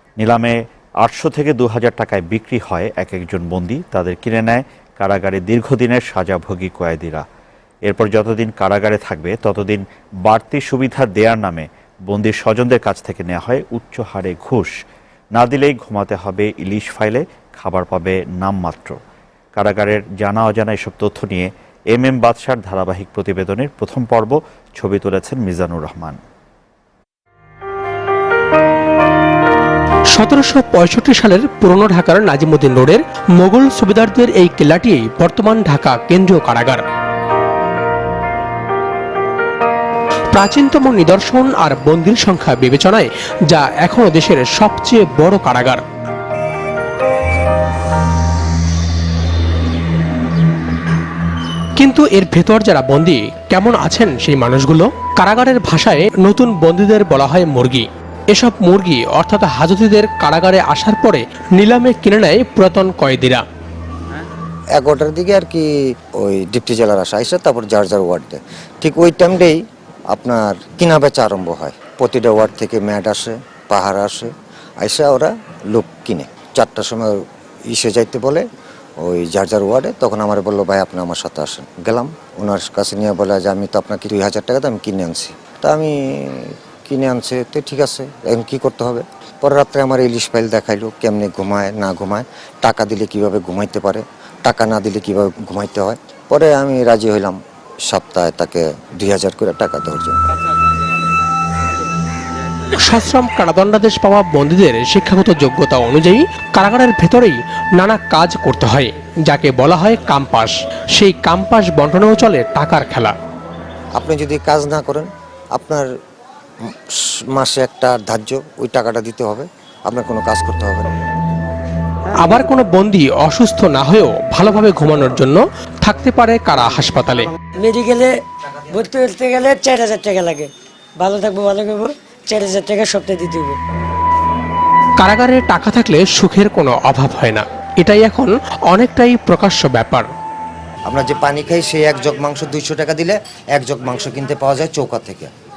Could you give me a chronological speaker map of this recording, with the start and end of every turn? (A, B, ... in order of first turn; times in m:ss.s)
0:00.2-0:07.2 A
0:07.9-0:14.7 A
0:15.4-0:19.0 A
0:19.6-0:26.2 A
0:30.1-0:36.8 B
0:40.3-0:45.8 B
0:51.8-1:03.4 B
1:04.8-1:09.6 C
1:10.1-1:18.4 C
1:19.0-1:37.4 C
1:37.9-1:40.2 C
1:42.8-1:53.1 B
1:54.0-1:55.9 C
1:57.4-2:00.9 C
2:02.1-2:07.3 B
2:07.6-2:08.1 D
2:08.7-2:13.6 D
2:15.0-2:20.1 B
2:20.9-2:25.3 C